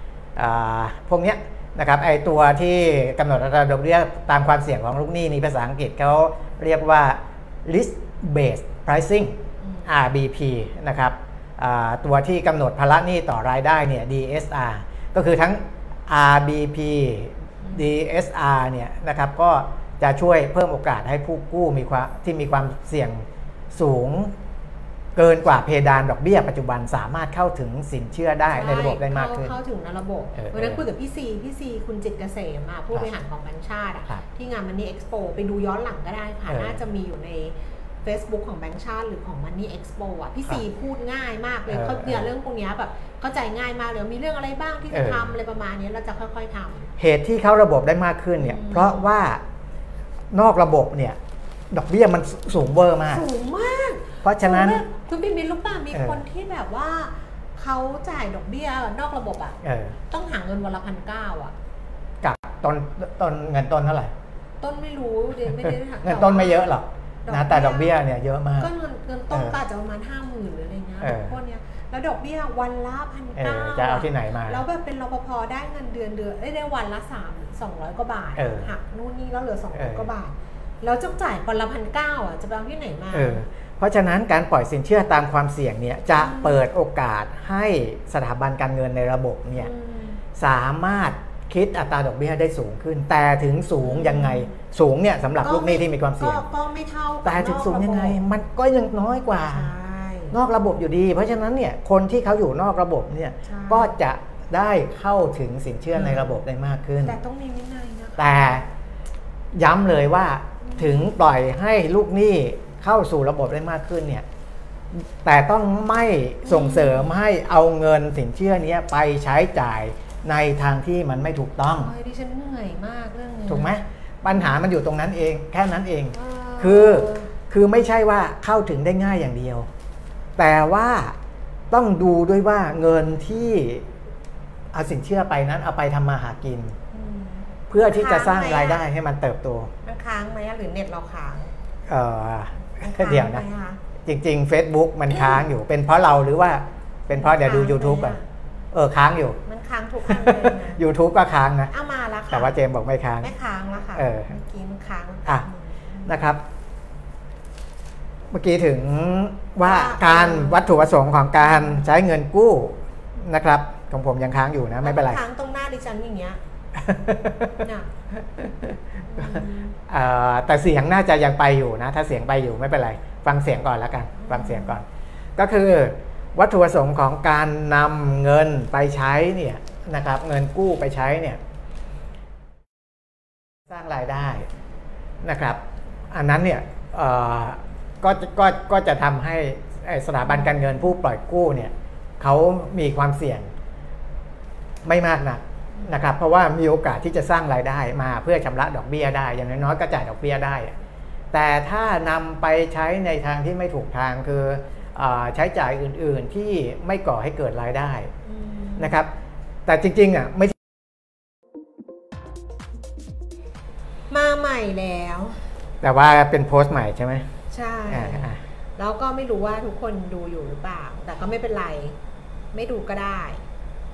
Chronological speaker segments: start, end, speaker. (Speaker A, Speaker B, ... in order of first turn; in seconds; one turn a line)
Speaker A: 0.4-24.3
Speaker B: 9.6-9.9
Speaker A: 25.2-29.5
Speaker B: 28.5-46.9
Speaker A: 30.4-30.8
Speaker A: 36.5-36.8
Speaker A: 41.7-42.3
Speaker A: 44.9-45.3
Speaker A: 47.0-49.4
Speaker B: 48.4-49.1
Speaker A: 50.3-51.2
Speaker A: 51.7-53.2
Speaker B: 53.1-61.5
Speaker A: 54.2-54.8
Speaker A: 55.9-56.2
Speaker A: 59.6-60.0
Speaker A: 62.2-64.1
Speaker B: 64.6-66.7
Speaker A: 65.5-68.7
Speaker B: 67.2-68.0
Speaker B: 68.6-83.4
Speaker A: 69.3-69.6
Speaker A: 71.0-71.4
Speaker A: 73.4-74.6
Speaker A: 78.4-78.7
Speaker A: 79.8-80.1
Speaker A: 83.1-89.7
Speaker B: 86.2-86.7
Speaker B: 89.6-90.2
Speaker A: 90.3-96.4
Speaker B: 93.8-94.5
Speaker B: 95.4-98.2
Speaker A: 97.2-99.7
Speaker B: 99.5-100.4
Speaker A: 100.3-107.2
Speaker B: 103.5-103.9
Speaker B: 106.0-106.4
Speaker B: 107.0-108.6
Speaker A: 108.2-108.7
Speaker A: 109.5-114.2
Speaker B: 110.6-111.1
Speaker A: 114.9-121.9
Speaker B: 116.5-117.2
Speaker B: 121.8-123.8
Speaker A: 123.5-129.7
Speaker B: 126.1-127.3
Speaker A: 130.4-131.2
Speaker A: 131.7-133.9
Speaker A: 134.7-136.8
Speaker B: 136.9-138.8
Speaker A: 137.7-139.7
Speaker B: 139.8-141.5
Speaker A: 141.9-143.4
Speaker B: 142.8-143.8
Speaker A: 144.1-148.2
Speaker B: 145.1-145.4
Speaker B: 147.1-148.2
Speaker A: 148.7-149.4
Speaker B: 149.5-150.8
Speaker A: 150.1-151.7
Speaker B: 151.7-152.6
Speaker A: 152.3-153.3
Speaker B: 153.2-156.1
Speaker A: 153.9-154.3
Speaker A: 156.1-156.4
Speaker A: 158.3-165.2
Speaker B: 159.6-160.8
Speaker B: 161.4-161.8
Speaker B: 164.8-166.4
Speaker A: 166.8-167.7
Speaker B: 167.6-167.9
Speaker A: 168.2-174.8
Speaker B: 169.1-169.8
Speaker B: 174.2-174.8
Speaker A: 175.4-181.4
Speaker A: 183.7-184.5
Speaker A: 185.2-185.6
Speaker A: 186.1-193.5
Speaker A: 194.8-200.8
Speaker A: 201.3-208.1
Speaker B: 208.2-208.9
Speaker A: 208.8-209.1
Speaker A: 209.7-210.6
Speaker B: 214.1-215.4
Speaker A: 215.8-217.3
Speaker B: 217.5-222.0
Speaker A: 217.9-218.4
Speaker B: 222.5-223.4